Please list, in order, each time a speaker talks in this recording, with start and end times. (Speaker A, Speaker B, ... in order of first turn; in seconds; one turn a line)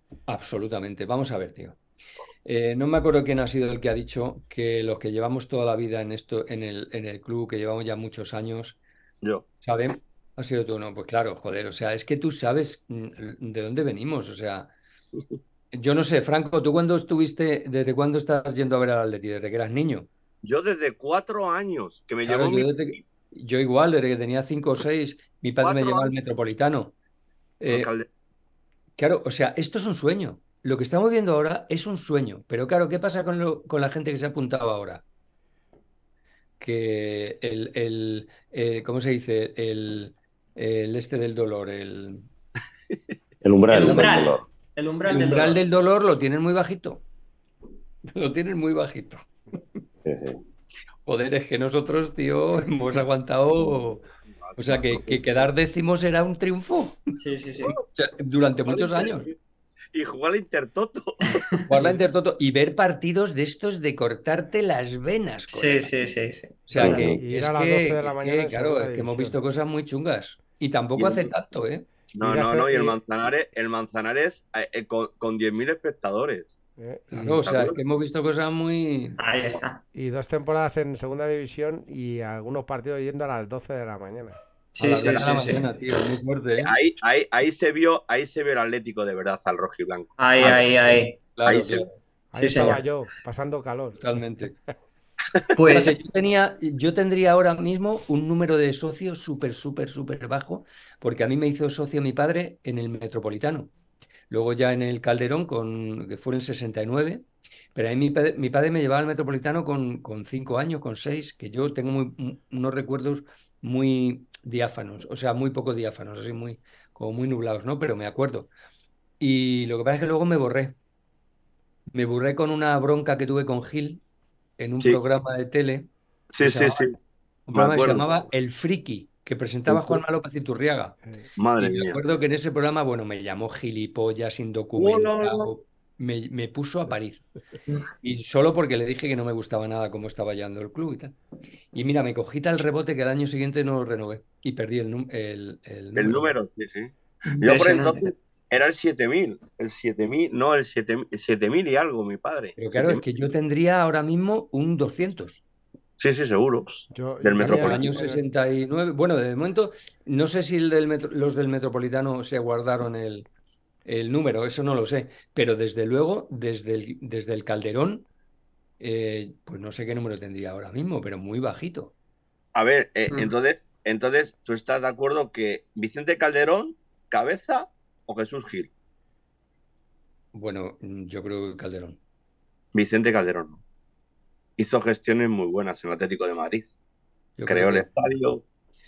Speaker A: 0.3-1.8
Speaker A: 2.4-8.8
Speaker A: 9.6-14.7
Speaker A: 15.7-20.1
Speaker B: 20.4-23.0
Speaker A: 22.2-26.9
Speaker B: 25.6-26.1
Speaker A: 27.6-27.9
Speaker B: 27.7-28.1
Speaker A: 29.0-35.0
Speaker A: 36.6-42.3
Speaker C: 43.4-44.5
Speaker A: 43.7-44.1
Speaker D: 43.7-45.6
Speaker A: 45.1-47.0
Speaker A: 48.1-49.2
Speaker C: 50.0-50.4
Speaker A: 51.0-54.0
Speaker B: 54.4-55.5
Speaker A: 54.6-57.0
Speaker D: 57.2-57.8
Speaker A: 57.9-59.3
Speaker B: 58.6-59.3
Speaker B: 59.9-61.4
Speaker A: 61.7-66.0
Speaker D: 65.5-66.6
Speaker A: 66.7-71.8
Speaker C: 66.8-67.2
Speaker E: 67.2-69.4
Speaker B: 71.0-71.3
Speaker B: 72.1-76.5
Speaker E: 72.2-73.0
Speaker E: 76.8-77.1
Speaker A: 77.1-79.2
Speaker B: 77.1-77.8
Speaker D: 79.2-79.8
Speaker E: 79.9-84.4
Speaker A: 84.8-86.7
Speaker D: 84.8-85.7
Speaker B: 86.6-91.8
Speaker D: 90.2-91.2
Speaker A: 91.3-92.0
Speaker E: 92.3-94.0
Speaker D: 92.3-92.8
Speaker A: 94.0-94.5
Speaker D: 95.5-96.0
Speaker A: 95.7-103.7
Speaker A: 104.3-107.2
Speaker A: 107.7-118.5
Speaker A: 119.2-120.7
Speaker A: 121.9-124.0
Speaker A: 124.6-125.9
Speaker B: 126.3-126.9
Speaker A: 126.4-126.8
Speaker A: 127.5-131.0
Speaker B: 127.5-128.1
Speaker B: 129.7-130.0
Speaker B: 131.4-132.0
Speaker A: 131.6-137.2
Speaker B: 134.8-135.5
Speaker A: 138.0-141.2
Speaker A: 141.7-146.3
Speaker B: 145.9-153.0
Speaker D: 147.3-148.1
Speaker A: 152.6-155.4
Speaker B: 156.0-158.0
Speaker E: 156.9-158.2
Speaker A: 157.4-163.2
Speaker A: 163.8-168.1
Speaker A: 168.8-171.9
Speaker B: 172.5-178.7
Speaker A: 180.3-182.0
Speaker B: 182.7-183.6
Speaker B: 184.6-186.8
Speaker A: 187.4-187.8
Speaker B: 187.5-188.4